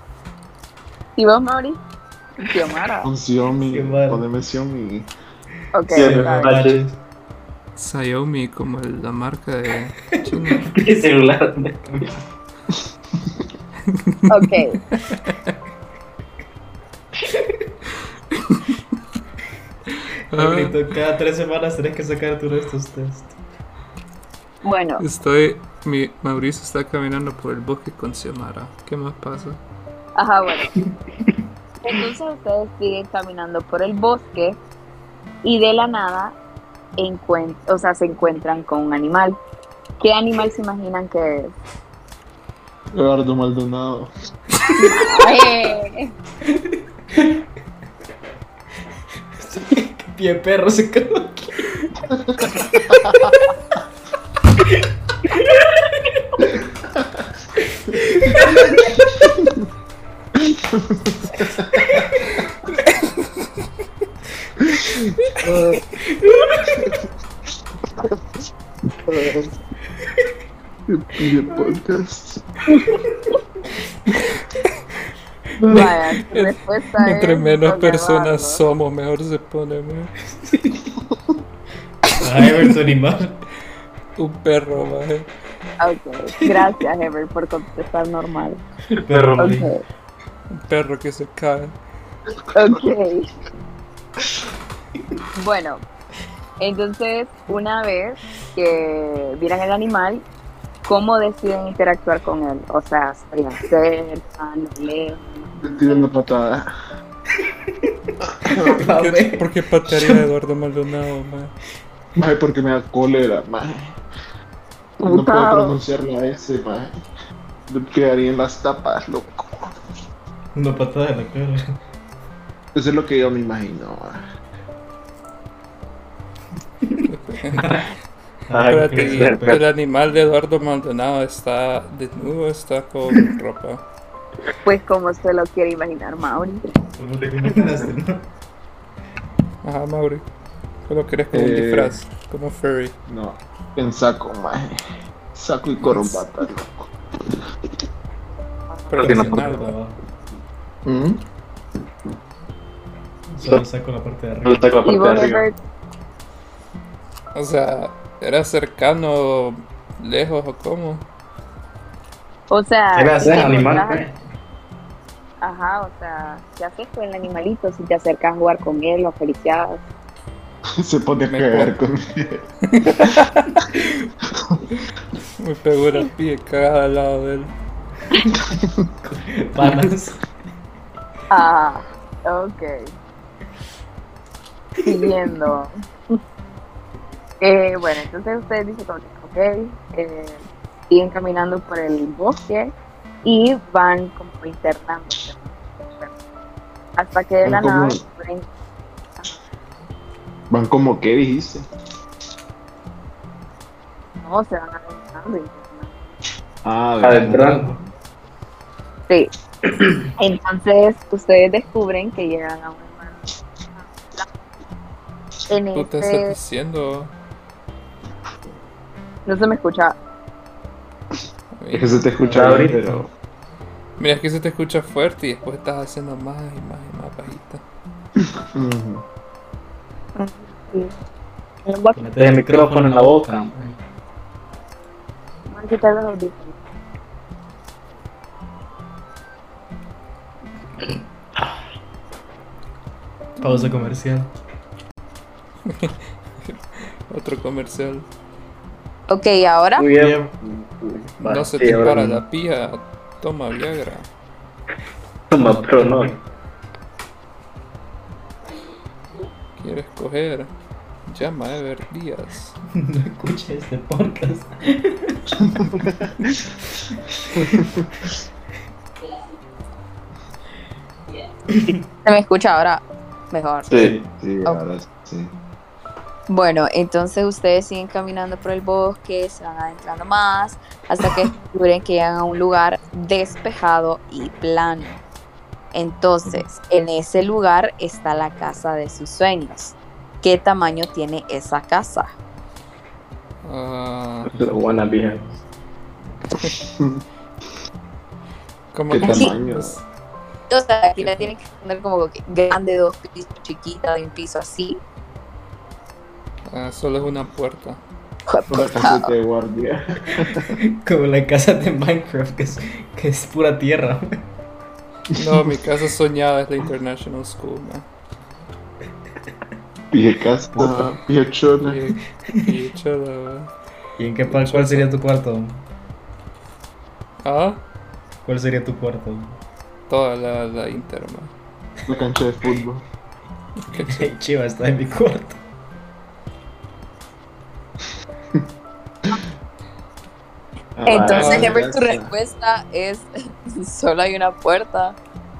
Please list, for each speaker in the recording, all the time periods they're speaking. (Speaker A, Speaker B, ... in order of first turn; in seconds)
Speaker A: 1.2-1.8, 2.4-3.1, 5.7-6.6, 14.3-14.8, 24.6-25.0, 30.1-30.7, 31.8-34.6, 35.4-36.4, 37.0-39.4, 40.0-41.5, 44.7-46.1, 75.7-78.6, 85.8-88.6, 89.4-89.8, 92.5-93.3, 95.3-95.8, 96.6-100.2, 100.8-106.1, 108.6-108.9, 115.0-115.8, 134.6-136.7, 154.8-155.6, 162.5-164.1, 165.4-169.8, 181.3-182.9, 184.8-185.7, 187.4-196.1, 197.0-198.5, 204.2-206.2, 210.2-214.2, 215.5-216.3, 219.2-219.9, 230.2-230.9, 231.7-232.1, 235.5-236.6, 249.1-249.9, 272.0-273.7, 276.3-285.0, 285.7-292.1, 299.0-299.3, 300.5-304.8, 308.3-309.1, 340.9-345.0
Speaker B: 3.0-5.1, 42.9-44.1, 52.2-53.2, 60.4-61.9, 64.7-65.8, 69.0-69.5, 70.9-72.5, 105.6-106.7, 108.2-108.6, 112.2-114.0, 115.0-117.0, 117.7-119.7, 122.7-124.2, 141.3-141.9, 143.1-144.8, 145.3-146.9, 150.8-151.2, 170.8-172.4, 174.3-174.6, 178.4-178.8, 197.4-198.0, 200.5-201.7, 206.6-207.8, 221.7-223.1, 228.2-229.0, 265.6-266.1, 274.1-275.3, 298.9-299.8, 308.5-310.6, 315.1-315.5, 319.9-321.8, 331.9-332.8, 340.8-342.1
Speaker C: 3.7-4.2, 5.9-7.0, 20.3-23.4, 46.5-47.4, 49.4-51.9, 57.9-59.0, 61.8-62.2, 66.1-66.9, 75.6-76.0, 80.5-80.7, 82.2-83.4, 88.9-89.7, 108.5-110.2, 120.5-121.6, 126.9-127.9, 128.5-129.6, 136.9-138.2, 149.0-150.0, 153.3-154.7, 179.0-180.2, 231.9-233.8, 243.4-244.3, 249.9-250.2, 255.5-256.0, 262.7-265.8, 267.1-267.7, 273.7-274.0, 310.6-314.2, 320.6-320.9, 324.0-325.6, 328.2-329.4, 333.8-335.4
Speaker D: 5.9-6.8, 10.7-12.1, 89.1-89.6, 128.5-129.6, 137.4-137.8, 149.0-149.4, 154.4-155.5, 162.9-164.1, 207.0-207.7, 222.2-222.9, 232.1-233.6, 249.8-252.2, 255.3-256.2, 273.7-274.0, 294.2-295.4, 340.9-341.5
Speaker E: 7.8-10.7, 13.9-14.4, 18.3-18.6, 20.3-20.8, 25.0-29.6, 76.3-80.1, 84.2-85.3, 90.5-91.7, 108.9-111.5, 127.1-127.7, 128.7-133.8, 139.6-140.2, 140.9-142.9, 148.9-149.8, 157.3-161.0, 171.3-171.7, 172.6-173.2, 175.4-177.5, 215.7-217.1, 221.6-222.1, 224.0-227.6, 243.4-243.9, 245.7-248.1, 251.2-254.1, 259.6-260.5, 261.1-262.6, 293.4-294.3, 298.7-299.8, 301.0-301.3, 306.5-307.8, 315.1-317.8, 321.6-323.5, 324.3-324.9, 327.2-327.6, 329.9-331.3, 333.7-334.1, 341.1-341.5